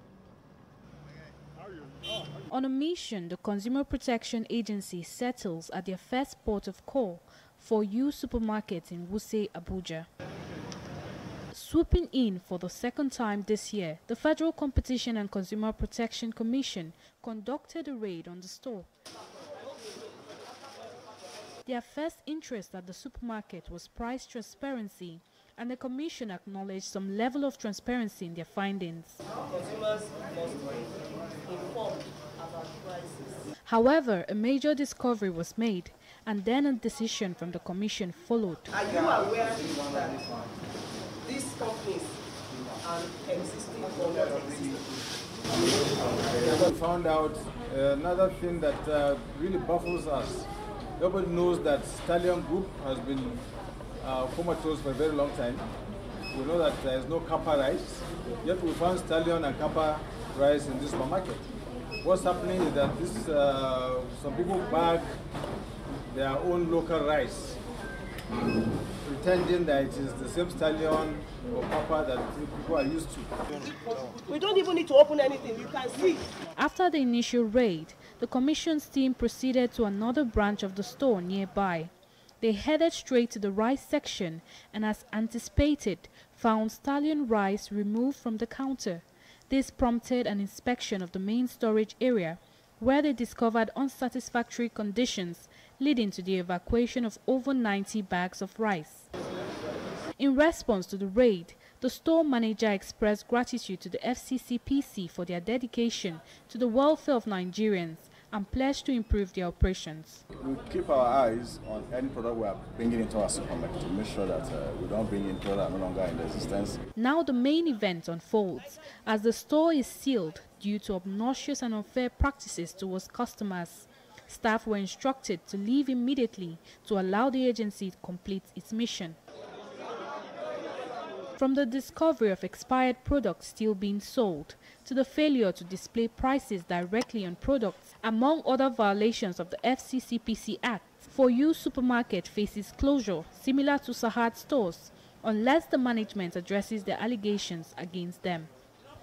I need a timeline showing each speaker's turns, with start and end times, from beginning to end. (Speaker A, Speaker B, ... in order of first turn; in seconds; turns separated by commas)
Speaker A: 2.5-10.1, Speaker A: 11.5-18.9, Speaker A: 21.6-29.2, Speaker B: 29.3-33.5, Speaker A: 33.6-38.7, Speaker B: 38.7-40.5, Speaker B: 41.2-42.2, Speaker B: 42.8-45.0, Speaker C: 46.3-53.4, Speaker C: 54.0-55.7, Speaker C: 56.3-61.5, Speaker C: 62.0-65.1, Speaker C: 66.1-67.6, Speaker C: 69.0-73.3, Speaker B: 73.6-76.3, Speaker A: 76.5-99.1, Speaker A: 100.2-110.2, Speaker D: 110.4-116.8, Speaker A: 117.0-129.2, Speaker A: 131.4-148.5